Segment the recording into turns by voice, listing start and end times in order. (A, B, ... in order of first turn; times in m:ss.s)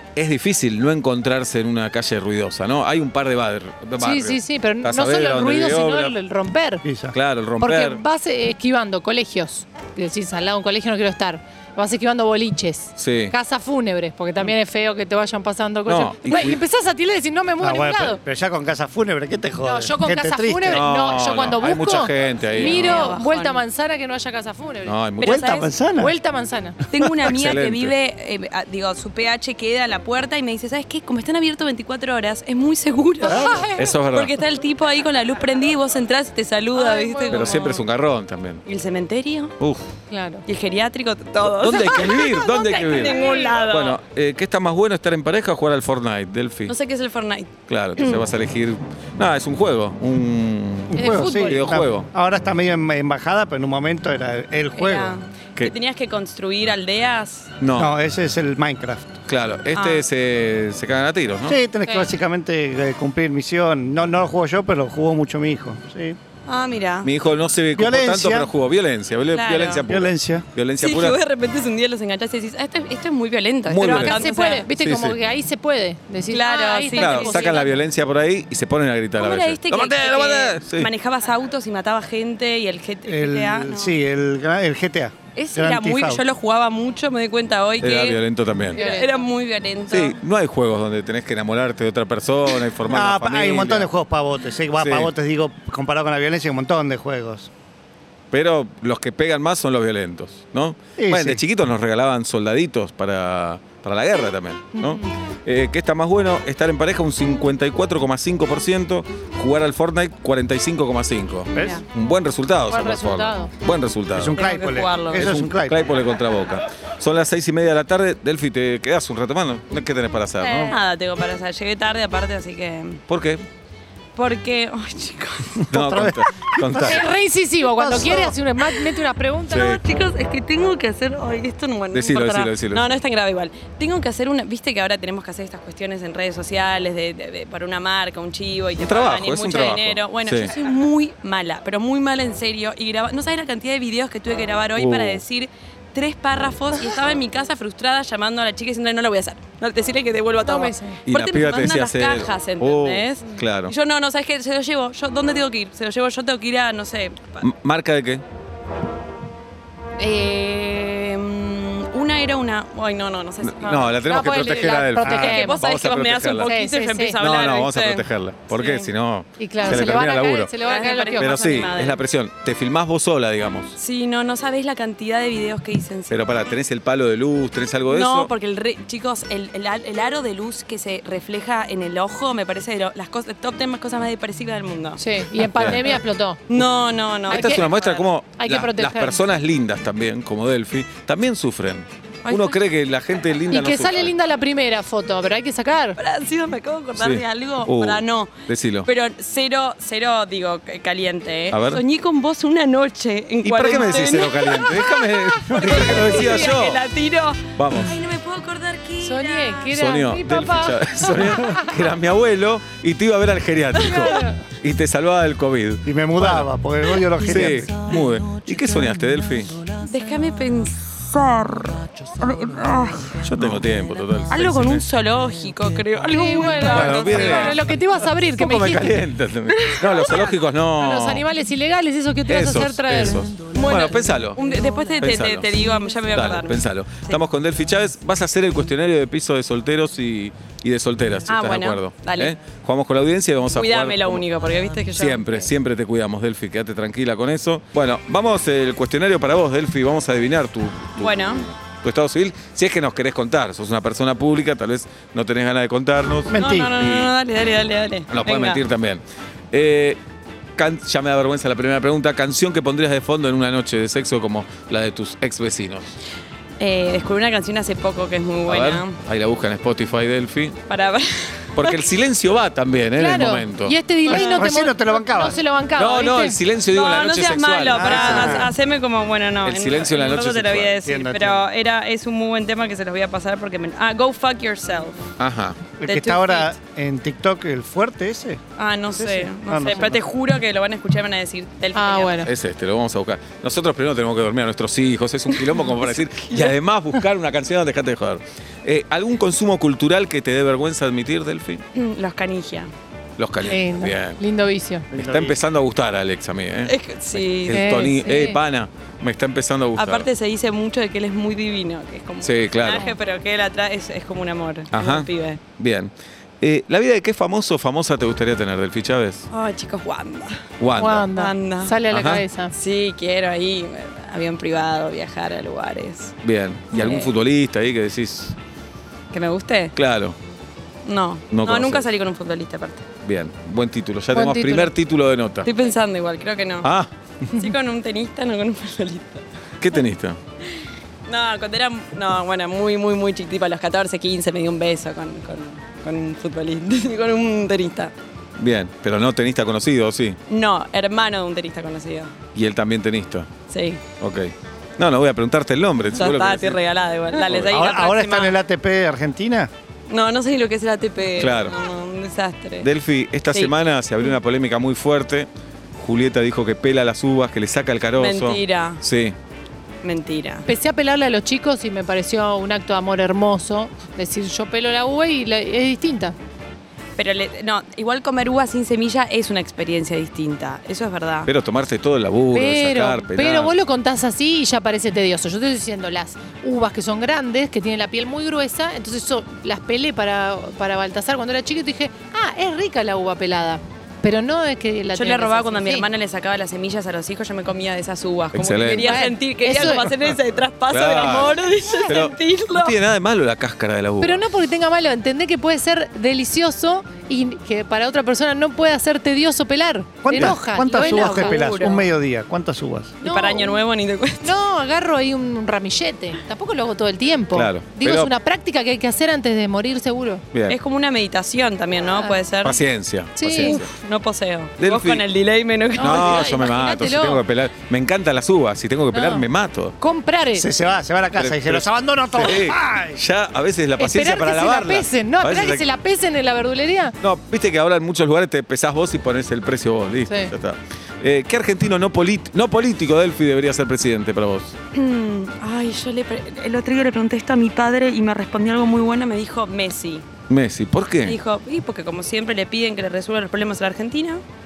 0:00.1-0:06.1 A
0:04.0-0:06.8 B
0:06.8-0:07.1 C
0:07.1-0:08.0 A
0:07.6-0:18.2 B
0:13.0-0:13.3 A
0:15.8-0:16.6 A
0:17.6-0:20.8 C
0:19.6-0:25.0 B
0:20.7-0:23.0 A
0:22.4-0:23.6 D
0:24.8-0:25.5 A
0:25.2-0:25.7 D
0:25.2-0:26.1 C
0:25.9-0:26.8 B
0:26.9-0:37.8 D
0:27.2-0:27.9 A
0:33.2-0:33.9 B
0:33.3-0:34.3 A
0:36.7-0:37.8 B
0:37.3-0:38.6 A
0:38.6-0:39.6 D
0:40.1-0:40.4 B
0:40.4-0:44.0 D
0:41.4-0:46.7 A
0:41.8-0:43.6 B
0:46.7-0:48.2 D
0:47.7-0:52.1 A
0:50.9-0:55.2 C
0:50.9-0:51.6 B
0:54.7-0:57.5 D
0:57.6-0:57.9 A
0:57.7-0:59.2 C
0:59.3-1:01.6 A
0:59.7-1:00.0 D
1:01.4-1:06.2 C
1:06.5-1:07.1 D
1:07.0-1:11.2 A
1:07.7-1:08.5 C
1:09.3-1:09.8 D
1:09.9-1:10.4 C
1:10.8-1:14.7 D
1:13.7-1:14.2 A
1:13.8-1:17.6 B
1:14.8-1:15.2 A
1:16.3-1:17.7 D
1:17.0-1:20.9 A
1:19.2-1:24.0 D
1:23.0-1:26.2 C
1:25.4-1:30.2 D
1:27.8-1:28.8 A
1:28.7-1:29.1 B
1:29.9-1:33.9 A
1:32.8-1:37.5 C
1:34.8-1:35.1 A
1:38.3-1:54.4 A
1:41.0-1:41.4 C
1:44.8-1:45.1 B
1:51.5-1:51.8 C
1:52.7-1:53.5 B
1:54.1-1:55.8 C
1:54.4-1:55.4 D
1:55.1-2:00.8 A
2:00.4-2:03.0 D
2:03.1-2:03.4 A
2:04.2-2:05.6 D
2:05.6-2:07.0 C
2:05.7-2:07.1 A
2:06.8-2:09.8 B
2:07.6-2:08.4 C
2:09.5-2:09.8 A
2:09.5-2:37.5 D
2:11.9-2:12.8 A
2:18.8-2:20.5 A
2:24.8-2:25.2 A
2:30.4-2:31.0 B
2:31.1-2:33.7 A
2:37.4-2:38.2 A
2:40.0-2:44.0 D
2:43.4-2:46.5 A
2:43.6-2:45.6 B
2:45.0-2:48.9 D
2:46.4-2:47.2 B
2:47.2-2:50.5 A
2:49.4-2:51.4 B
2:50.6-2:52.0 D
2:51.2-2:53.8 A
2:53.8-2:56.3 D
2:56.1-2:58.3 A
2:57.9-3:05.0 D
3:05.0-3:06.4 B
3:05.4-3:06.0 A
3:06.5-3:08.1 D
3:07.3-3:07.6 B
3:07.3-3:14.1 A
3:08.4-3:09.2 B
3:12.2-3:12.6 D
3:13.5-3:16.0 B
3:16.0-3:29.7 D
3:17.0-3:18.9 A
3:21.5-3:21.8 A
3:23.4-3:26.8 A
3:27.6-3:28.0 A
3:29.0-3:31.7 B
3:29.7-3:36.5 A
3:33.8-3:34.4 B
3:33.9-3:34.2 D
3:35.8-3:37.8 C
3:37.2-3:39.6 A
3:39.8-3:43.2 D
3:43.2-3:44.8 A
3:44.3-3:47.6 D
3:46.1-3:49.0 B
3:46.6-3:47.6 A
3:48.4-3:51.2 A
3:49.6-3:50.3 D
3:50.8-3:53.3 B
3:52.3-3:54.4 A
3:53.5-3:57.2 D
3:55.0-3:55.6 A
3:56.1-4:04.2 A
4:01.3-4:02.3 D
4:03.5-4:05.5 D
4:04.9-4:17.1 A
4:11.0-4:11.5 D
4:16.3-4:16.8 C
4:16.3-4:18.6 D
4:18.1-4:20.0 A
4:20.6-4:25.9 A
4:26.6-4:29.0 D
4:28.5-4:30.6 A
4:30.7-4:31.8 D
4:31.6-4:33.8 A
4:33.0-4:36.4 B
4:34.1-4:35.4 C
4:35.8-4:38.5 A
4:36.7-4:45.1 D
4:37.7-4:38.5 C
4:39.4-4:40.8 A
4:40.8-4:41.4 C
4:45.2-4:45.6 A
4:45.8-4:48.4 C
4:45.8-4:46.5 D
4:48.6-4:52.3 D
4:49.0-4:50.0 C
4:51.7-4:52.3 B
4:52.2-5:01.6 A
4:55.4-4:55.7 D
4:56.3-4:56.5 D
5:01.7-5:02.7 D
5:03.2-5:04.2 A
5:03.4-5:04.9 B
5:04.9-5:05.4 C
5:04.9-5:10.1 A
5:06.6-5:07.9 D
5:07.5-5:08.4 B
5:09.8-5:15.4 D
5:12.2-5:12.8 A
5:14.7-5:19.2 A
5:19.3-5:20.4 D
5:20.6-5:21.1 A
5:20.8-5:22.5 B
5:21.1-5:21.8 D
5:21.9-5:22.2 A
5:22.5-5:26.2 D
5:26.2-5:28.4 A
5:26.7-5:27.1 D
5:29.1-5:29.7 D
5:29.7-5:30.2 A
5:30.8-5:32.8 D
5:31.3-5:31.9 A
5:33.0-5:35.5 A
5:34.1-5:34.7 B
5:35.4-5:36.7 D
5:36.6-5:36.9 A
5:37.4-5:39.2 D
5:39.6-5:40.2 A
5:41.1-5:47.9 D
5:48.4-5:50.2 A
5:50.3-5:52.1 D
5:52.3-5:53.3 A
5:53.5-5:53.8 D
5:54.0-5:56.6 A
5:56.0-5:58.4 D
5:57.2-5:57.6 A
5:57.4-5:59.5 C
5:59.9-6:02.7 D
6:01.2-6:01.5 A
6:02.6-6:09.2 A
6:03.3-6:04.1 D
6:08.0-6:08.8 D
6:09.8-6:10.5 D
6:10.4-6:16.1 B
6:17.0-6:21.3 D
6:21.3-6:23.5 A
6:22.3-6:35.8 B
6:34.9-6:42.8 D
6:38.3-6:39.0 A
6:38.8-6:39.9 B
6:40.7-6:44.2 A
6:44.0-6:51.4 B
6:50.0-6:53.0 C
6:50.7-6:51.9 D
6:53.0-6:53.6 B
6:53.0-6:54.3 D
6:54.2-7:00.2 B
6:57.3-6:58.1 A
7:00.3-7:00.6 A
7:00.5-7:02.6 D
7:02.4-7:03.7 A
7:03.2-7:03.7 B
7:03.3-7:06.4 D
7:04.6-7:05.0 A
7:05.8-7:07.2 B
7:05.8-7:09.7 A
7:08.9-7:09.2 B
7:09.8-7:10.5 B
7:10.3-7:13.0 C
7:11.2-7:15.6 A
7:13.8-7:16.9 B
7:17.0-7:24.6 A
7:20.1-7:20.3 B
7:24.7-7:30.1 D
7:30.3-7:31.2 A
7:31.0-7:34.2 D